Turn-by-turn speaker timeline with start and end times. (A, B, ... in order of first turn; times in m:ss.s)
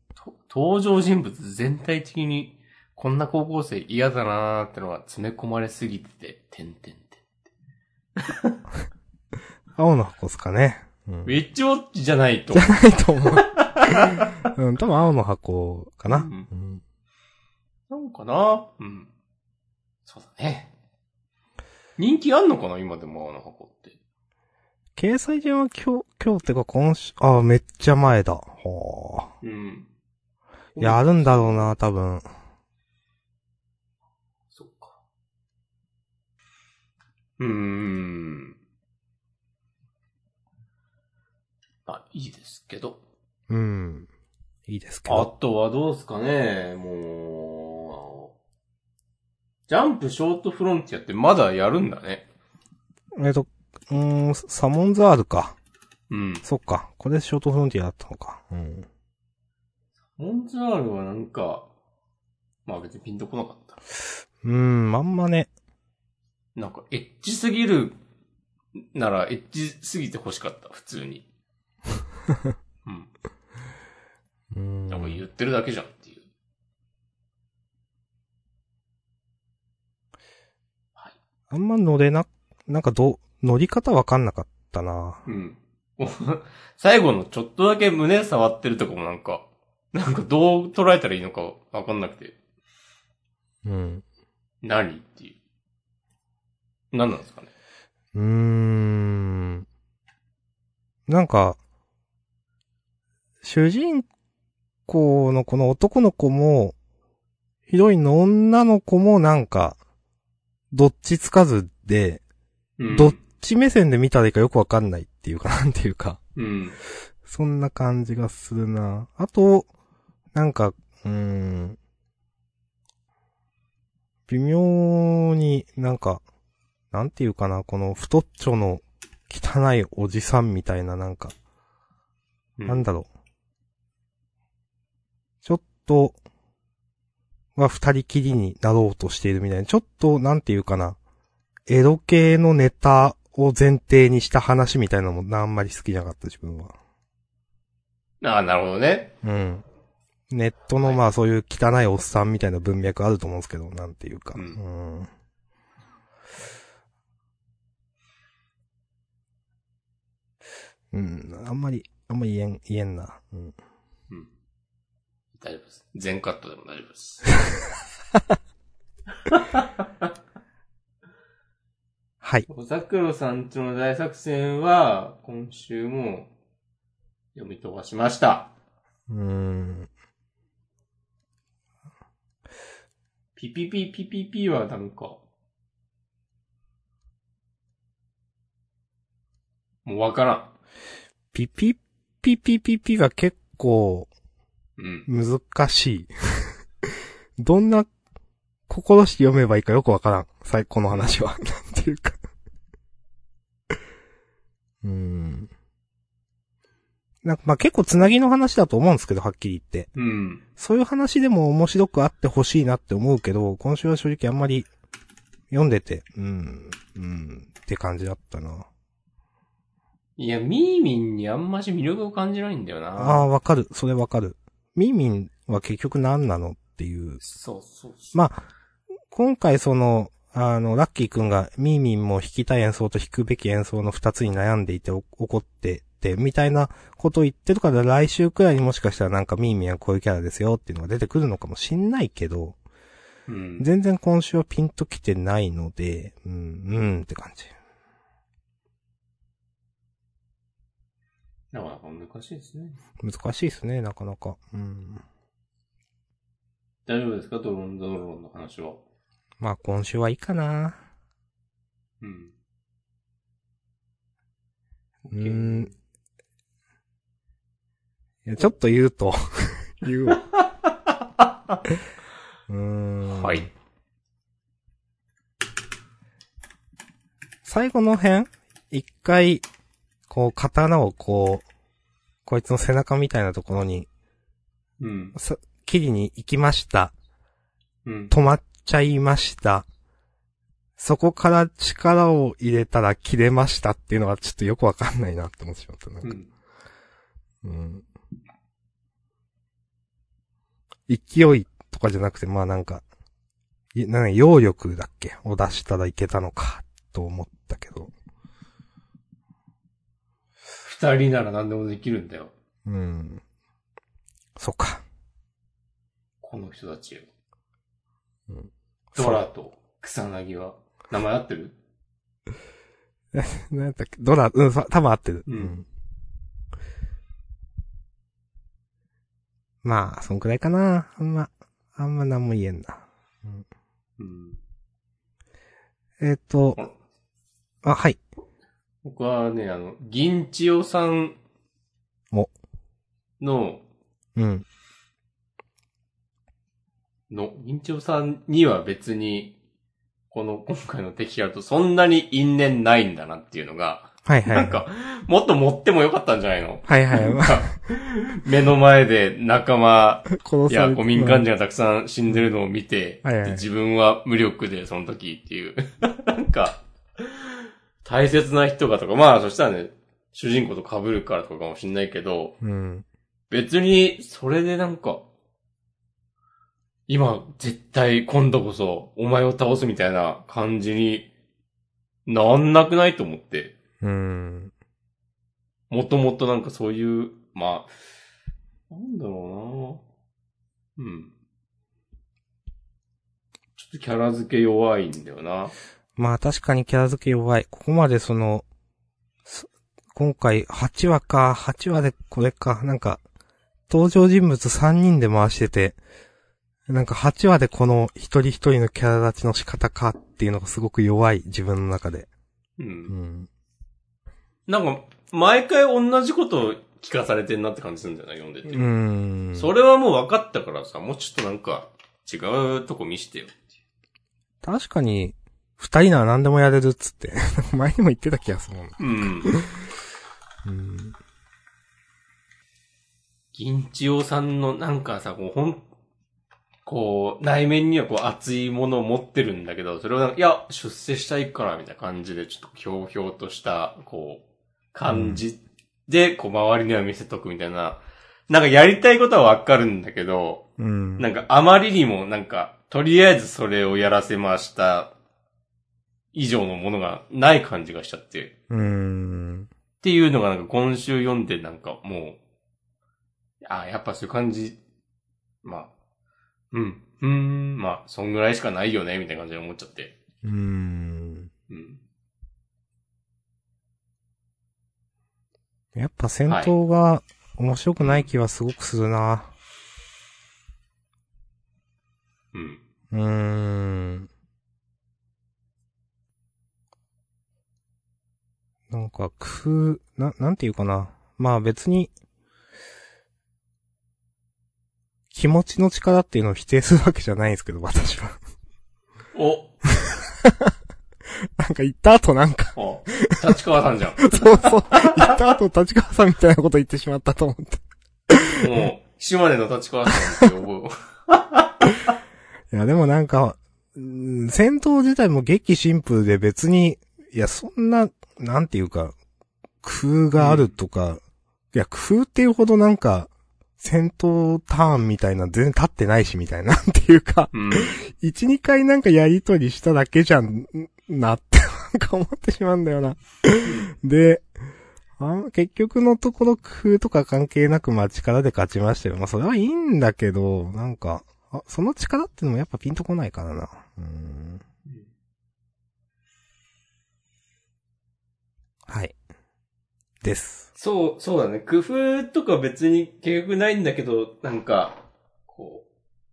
0:00.2-0:07.2 A
0:08.2-0:08.6 A
0:09.8-0:11.3 B
0:11.2-0:14.5 A
0:12.5-0:16.8 B
0:16.1-0:16.5 A
0:17.9-0:19.1 A
0:20.0-0:20.7 A
0:22.0-0:23.9 A
0:25.0-0:29.3 B
0:29.4-0:29.9 A
0:30.7-0:31.7 A
0:30.8-0:32.2 B
0:34.5-0:35.0 A
0:37.4-0:38.6 A
0:41.8-0:43.0 A
0:43.5-0:44.1 B
0:44.7-0:45.3 B
0:45.0-0:48.3 A
0:49.7-0:52.2 A
0:53.1-0:55.6 B
0:56.1-0:56.4 A
0:56.4-0:58.9 B
1:00.2-1:01.7 A
1:02.6-1:03.8 A
1:04.4-1:05.5 B
1:06.6-1:08.0 A
1:08.8-1:11.2 A
1:14.5-1:15.2 B
1:14.9-1:16.2 A
1:21.5-1:25.2 B
1:25.2-1:32.4 A
1:33.6-1:34.0 B
1:34.6-1:35.4 A
1:36.9-1:37.5 A
1:38.1-1:39.6 B
1:41.1-1:41.6 B
1:43.4-1:44.1 B
1:44.9-1:46.7 B
1:47.7-1:49.8 B
1:50.7-1:52.2 B
1:52.8-1:53.2 A
1:52.9-1:56.2 B
1:56.4-1:56.8 A
1:57.2-1:59.7 B
2:00.3-2:01.8 B
2:04.3-2:06.2 B
2:06.9-2:11.3 B
2:12.6-2:12.9 A
2:12.7-2:13.1 B
2:15.4-2:16.2 B
2:17.6-2:21.0 B
2:21.7-2:26.7 B
2:28.2-2:29.1 A
2:29.2-2:29.6 B
2:30.3-2:35.1 B
2:34.3-2:34.6 A
2:40.9-2:43.5 B
2:45.4-2:47.3 A
2:49.2-2:49.7 A
2:52.2-2:52.5 B
2:52.5-2:56.3 A
2:57.3-2:58.5 A
2:59.1-2:59.9 B
3:03.4-3:05.2 A
3:09.8-3:10.5 A
3:11.3-3:14.1 B
3:14.8-3:15.1 A
3:15.1-3:16.5 B
3:17.4-3:17.9 B
3:18.7-3:22.2 B
3:20.9-3:21.2 A
3:24.8-3:25.5 B
3:27.2-3:29.9 B
3:29.9-3:30.4 A
3:30.6-3:34.7 B
3:35.5-3:38.7 B
3:40.2-3:43.3 A
3:43.0-3:47.2 B
3:47.2-3:48.2 A
3:48.1-3:48.4 B
3:49.1-4:02.6 B
4:03.3-4:03.6 A
4:03.6-4:07.5 B
4:11.5-4:12.8 A
4:13.0-4:15.0 B
4:16.8-4:18.8 A
4:19.4-4:20.8 B
4:22.0-4:22.3 A
4:25.1-4:25.7 A
4:25.1-4:25.7 B
4:28.2-4:30.2 B
4:30.3-4:31.6 A
4:32.5-4:33.5 B
4:33.0-4:33.5 A
4:37.4-4:39.4 B
4:40.1-4:41.4 B
4:42.2-4:43.9 B
4:44.8-4:45.1 A
4:45.1-4:46.9 B
4:47.8-4:48.1 A
4:48.1-4:49.7 B
4:50.8-4:56.2 B
4:56.0-4:56.3 A
4:57.4-4:57.8 B
5:00.9-5:02.8 B
5:03.7-5:07.9 B
5:10.6-5:12.3 A
5:12.6-5:13.2 B
5:14.4-5:14.8 B
5:16.2-5:17.1 A
5:18.3-5:19.2 B
5:19.0-5:21.5 A
5:23.1-5:25.6 B
5:25.3-5:25.6 A
5:29.6-5:33.4 B
5:34.0-5:34.4 A
5:36.0-5:36.6 B
5:37.6-5:38.0 B
5:38.8-5:41.2 A
5:43.2-5:43.6 A
5:44.2-5:44.4 B
5:47.1-5:49.4 A
5:50.1-6:12.3 A
5:54.0-5:54.6 B
5:56.7-5:57.5 B
6:00.1-6:01.3 B
6:03.0-6:03.5 B
6:12.4-6:12.8 B
6:13.3-6:15.0 A
6:16.9-6:21.1 A
6:22.0-6:23.6 A
6:23.8-6:24.5 B
6:25.7-6:27.7 A
6:28.7-6:29.8 A
6:30.8-6:31.1 A
6:33.6-6:35.5 A
6:36.0-6:38.4 B
6:39.2-6:43.0 B
6:43.7-6:45.8 B
6:46.7-6:52.1 B
6:52.6-6:52.9 A
6:52.9-6:53.3 B
6:54.5-6:58.7 A
6:58.5-6:59.5 B
6:59.3-7:03.4 A
7:04.4-7:09.7 B
7:08.8-7:09.3 A
7:10.4-7:11.0 B
7:13.3-7:15.6 A
7:16.6-7:24.2 A
7:24.7-7:30.4 A
7:24.9-7:25.2 B
7:30.6-7:31.0 B
7:31.0-7:34.9 A
7:36.1-7:38.3 A
7:38.5-7:39.5 B
7:39.8-7:42.2 A
7:43.4-7:44.6 A
7:45.4-7:45.7 A
7:46.5-7:49.9 A
7:50.2-7:51.3 B
7:51.5-7:51.8 A
7:55.7-7:59.3 B
7:56.3-7:56.5 A
7:57.8-7:58.1 A
8:02.3-8:02.6 A
8:02.9-8:04.1 B
8:08.7-8:11.9 B
8:15.1-8:18.2 B
8:19.1-8:19.7 A
8:20.2-8:20.5 B
8:21.4-8:23.2 B
8:22.6-8:25.1 A
8:24.0-8:28.4 B
8:28.4-8:31.9 A
8:32.5-8:38.9 B
8:39.6-8:41.0 B
8:40.2-8:40.5 A
8:41.5-8:54.2 B
8:47.3-8:47.8 A
8:53.4-8:53.7 A
8:55.0-9:04.4 B
9:08.7-9:08.9 B
9:10.0-9:10.5 B
9:10.6-9:15.6 A